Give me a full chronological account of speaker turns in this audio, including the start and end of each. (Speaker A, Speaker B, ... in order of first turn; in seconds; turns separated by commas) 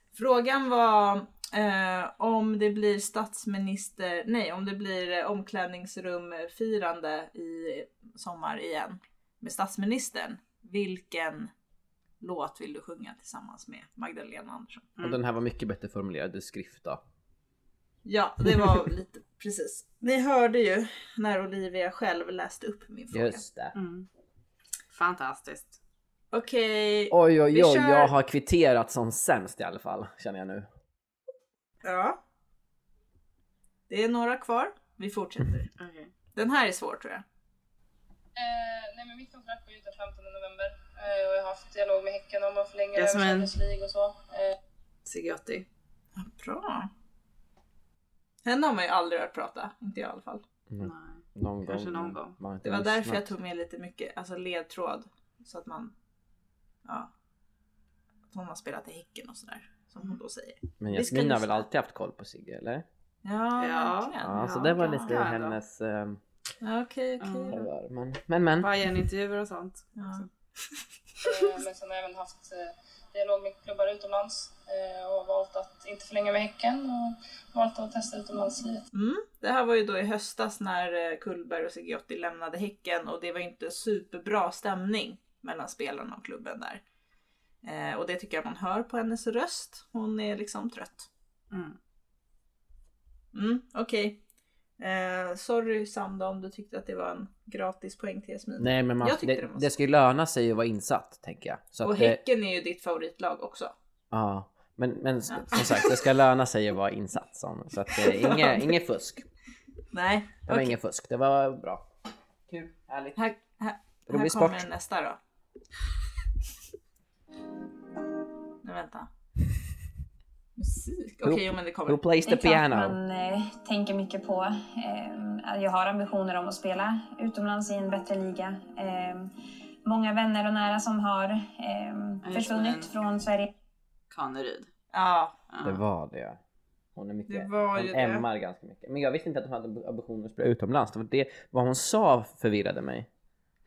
Speaker A: 0.1-11.5, Speaker A: 12.2-14.9, Speaker B: 15.0-17.0, Speaker A: 18.1-23.4, Speaker B: 23.1-23.8, Speaker C: 23.8-24.1, Speaker C: 24.9-25.8, Speaker A: 26.3-28.1, Speaker B: 27.1-30.7, Speaker A: 31.8-32.2, Speaker A: 33.9-35.7, Speaker C: 35.8-36.1, Speaker A: 36.4-37.2, Speaker D: 38.4-44.5, Speaker C: 43.0-43.5, Speaker C: 45.1-45.7, Speaker A: 46.2-46.9, Speaker A: 48.5-50.4, Speaker B: 50.7-53.3, Speaker C: 50.8-52.4, Speaker A: 52.6-55.9, Speaker A: 56.9-57.1, Speaker A: 58.3-61.6, Speaker B: 60.8-62.9, Speaker A: 63.2-65.3, Speaker C: 63.6-65.6, Speaker B: 64.2-66.2, Speaker A: 66.6-67.6, Speaker C: 67.2-67.6, Speaker B: 67.5-68.8, Speaker C: 68.6-70.3, Speaker A: 70.0-70.2, Speaker D: 71.2-78.8, Speaker A: 78.9-86.8, Speaker A: 87.6-91.1, Speaker C: 91.5-91.8, Speaker A: 93.3-94.2, Speaker A: 94.8-99.8, Speaker B: 98.6-102.2, Speaker A: 101.8-103.7, Speaker B: 104.1-109.2, Speaker A: 105.3-106.0, Speaker A: 107.9-108.7, Speaker A: 109.9-110.7, Speaker B: 110.5-111.9, Speaker B: 112.5-113.2, Speaker A: 113.2-115.2, Speaker B: 114.1-114.7, Speaker A: 118.6-119.1, Speaker A: 120.6-122.0, Speaker B: 121.2-123.0, Speaker E: 122.2-129.3, Speaker E: 129.8-133.5, Speaker C: 132.2-132.9, Speaker C: 134.1-134.7, Speaker A: 134.9-135.3, Speaker C: 135.5-135.8, Speaker B: 135.6-136.4, Speaker B: 137.0-143.1, Speaker A: 137.3-138.3